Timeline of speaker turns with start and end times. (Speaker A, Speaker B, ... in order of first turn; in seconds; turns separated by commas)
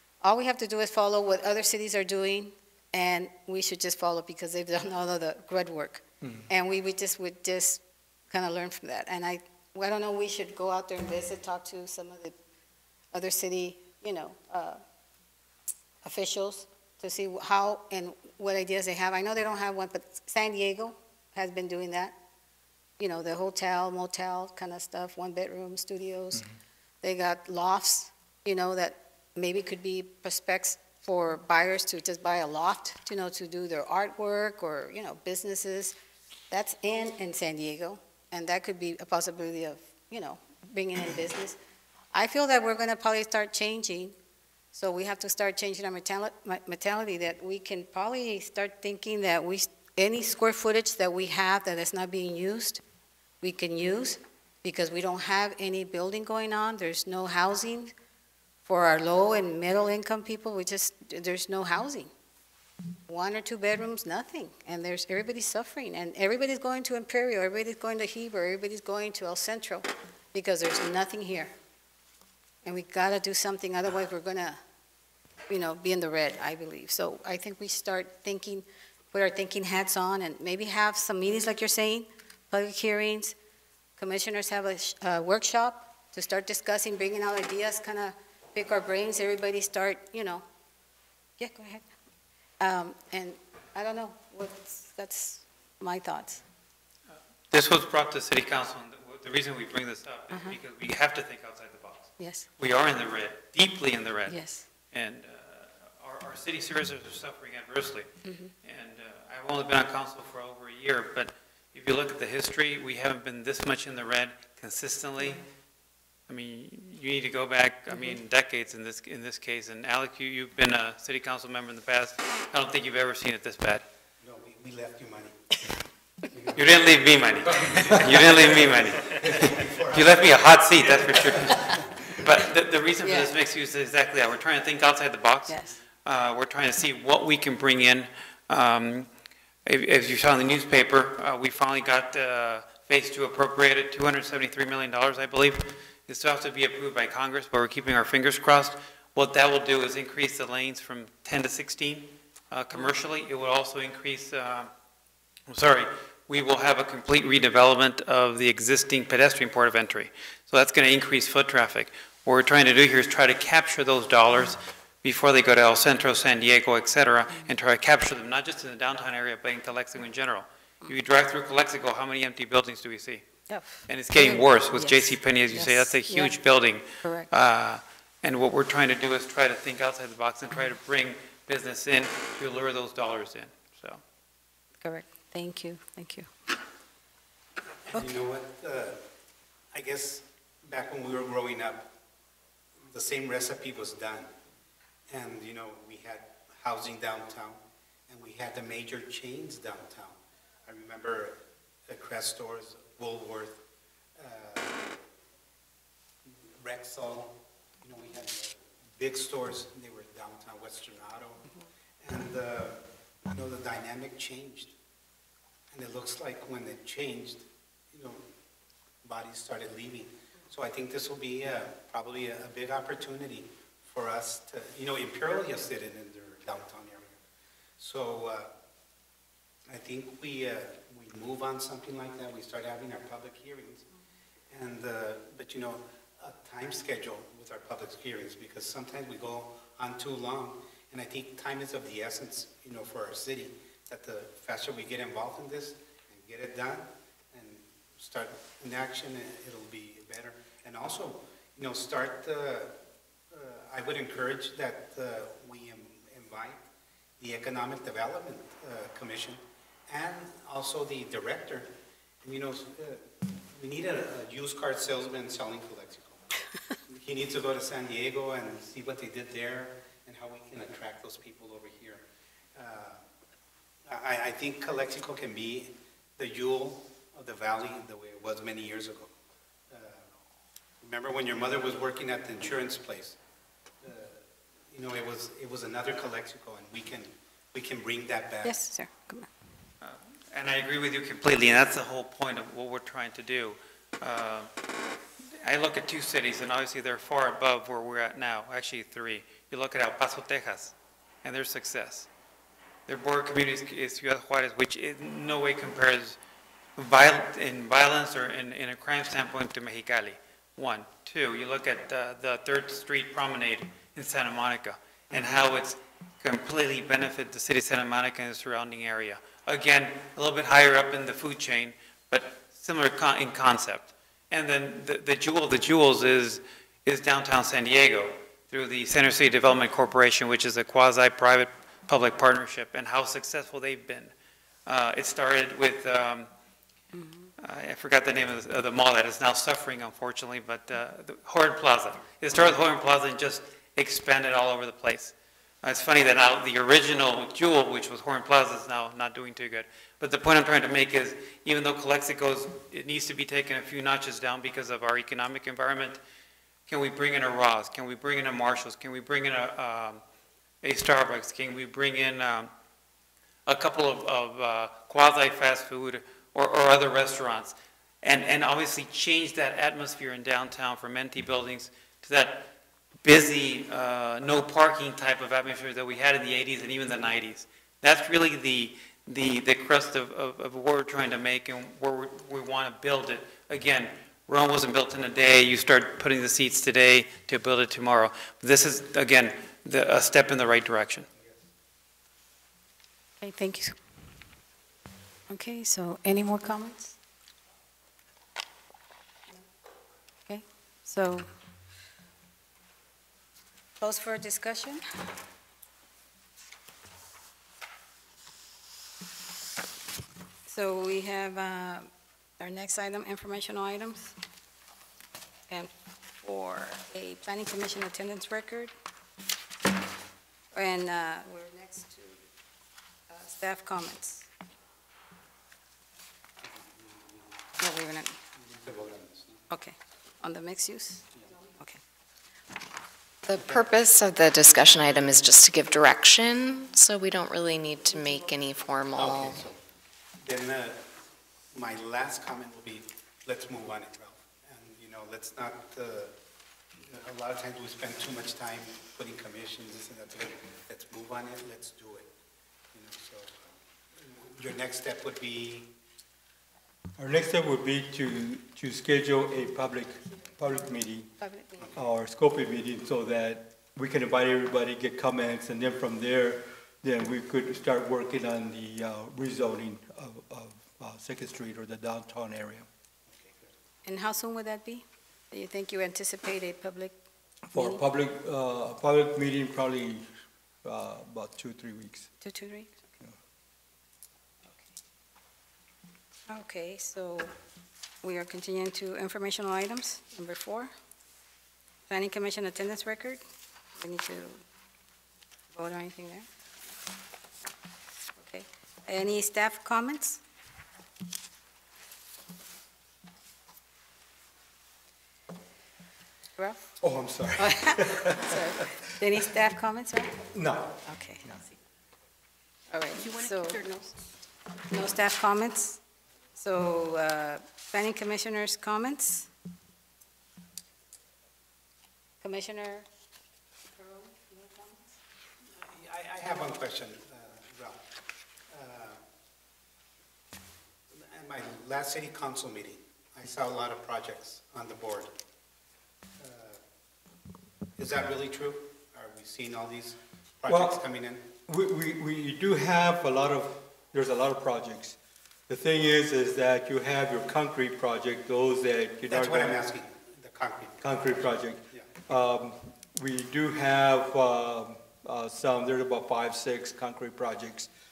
Speaker A: 0.2-12.3, Speaker B: 6.2-6.5, Speaker A: 13.1-14.8, Speaker A: 16.0-22.2, Speaker A: 23.0-26.4, Speaker A: 27.0-36.0, Speaker A: 36.5-41.6, Speaker A: 42.1-44.2, Speaker A: 44.7-52.8, Speaker A: 53.4-57.9, Speaker A: 58.7-62.1, Speaker A: 63.1-71.5, Speaker A: 72.6-74.6, Speaker A: 75.5-83.4, Speaker A: 84.0-90.5, Speaker A: 91.4-91.8, Speaker A: 92.6-96.4, Speaker C: 97.1-104.4, Speaker A: 100.3-100.6, Speaker A: 102.2-102.5, Speaker A: 104.3-104.7, Speaker C: 104.9-108.1, Speaker A: 108.2-108.5, Speaker C: 108.6-115.4, Speaker C: 116.3-123.8, Speaker A: 117.9-118.2, Speaker D: 124.2-125.4, Speaker D: 126.3-131.8, Speaker C: 126.5-139.1, Speaker A: 131.5-131.8, Speaker A: 133.0-133.3, Speaker A: 135.5-135.8, Speaker C: 139.7-154.7, Speaker C: 155.5-173.2, Speaker A: 173.5-176.3, Speaker C: 173.9-184.0, Speaker A: 177.0-177.3, Speaker A: 184.8-186.3, Speaker D: 187.9-189.0, Speaker D: 189.7-191.9, Speaker D: 192.9-194.3, Speaker D: 195.1-203.6, Speaker D: 204.2-205.0, Speaker D: 206.2-211.5, Speaker D: 212.0-214.8, Speaker D: 215.7-218.3, Speaker D: 219.0-227.2, Speaker D: 227.8-228.5, Speaker D: 229.7-233.9, Speaker D: 234.5-252.7, Speaker D: 253.3-256.6, Speaker D: 257.2-261.7, Speaker D: 262.2-266.2, Speaker D: 266.9-272.0, Speaker D: 272.6-273.0, Speaker D: 273.9-279.1, Speaker D: 279.7-280.1, Speaker D: 280.8-283.2, Speaker D: 283.8-288.6, Speaker A: 288.4-289.3, Speaker C: 289.8-294.5, Speaker C: 295.4-302.1, Speaker C: 302.9-306.2, Speaker C: 306.8-334.1, Speaker C: 334.7-336.3, Speaker A: 336.9-337.3, Speaker C: 337.4-356.0, Speaker C: 356.7-360.0, Speaker C: 360.6-362.5, Speaker C: 363.5-372.5, Speaker C: 373.0-391.1, Speaker A: 393.2-393.8, Speaker A: 395.3-397.0, Speaker A: 400.3-401.3, Speaker A: 403.8-404.8, Speaker A: 410.5-411.9, Speaker A: 412.4-414.2, Speaker A: 416.2-418.7, Speaker A: 420.5-422.2, Speaker A: 423.1-424.3, Speaker D: 426.4-427.4, Speaker A: 427.6-428.2, Speaker D: 428.4-429.4, Speaker A: 429.5-431.8, Speaker E: 433.3-439.5, Speaker D: 438.9-439.6, Speaker D: 440.2-440.9, Speaker D: 441.5-446.1, Speaker D: 446.8-452.1, Speaker D: 452.7-455.7, Speaker B: 457.0-461.1, Speaker A: 461.2-461.7, Speaker B: 461.7-472.7, Speaker D: 473.1-473.5, Speaker A: 473.9-477.0, Speaker B: 477.5-480.1, Speaker A: 477.5-477.8, Speaker B: 480.6-482.1, Speaker A: 482.2-482.8, Speaker A: 486.3-487.3, Speaker A: 488.0-490.7, Speaker A: 491.9-493.2, Speaker A: 493.8-494.4, Speaker A: 495.5-496.3, Speaker A: 498.2-500.2, Speaker B: 506.8-508.6, Speaker A: 507.4-510.2, Speaker B: 510.3-511.4, Speaker A: 510.9-511.3, Speaker A: 512.7-513.9, Speaker A: 514.7-515.8, Speaker A: 516.4-519.3, Speaker A: 522.2-522.9, Speaker A: 523.8-525.0, Speaker D: 525.6-527.8, Speaker D: 528.5-529.0, Speaker D: 530.9-535.1, Speaker D: 536.2-536.6, Speaker D: 537.8-541.2, Speaker B: 540.5-540.8, Speaker B: 541.5-545.0, Speaker B: 545.5-549.6, Speaker D: 549.1-552.0, Speaker B: 550.8-557.7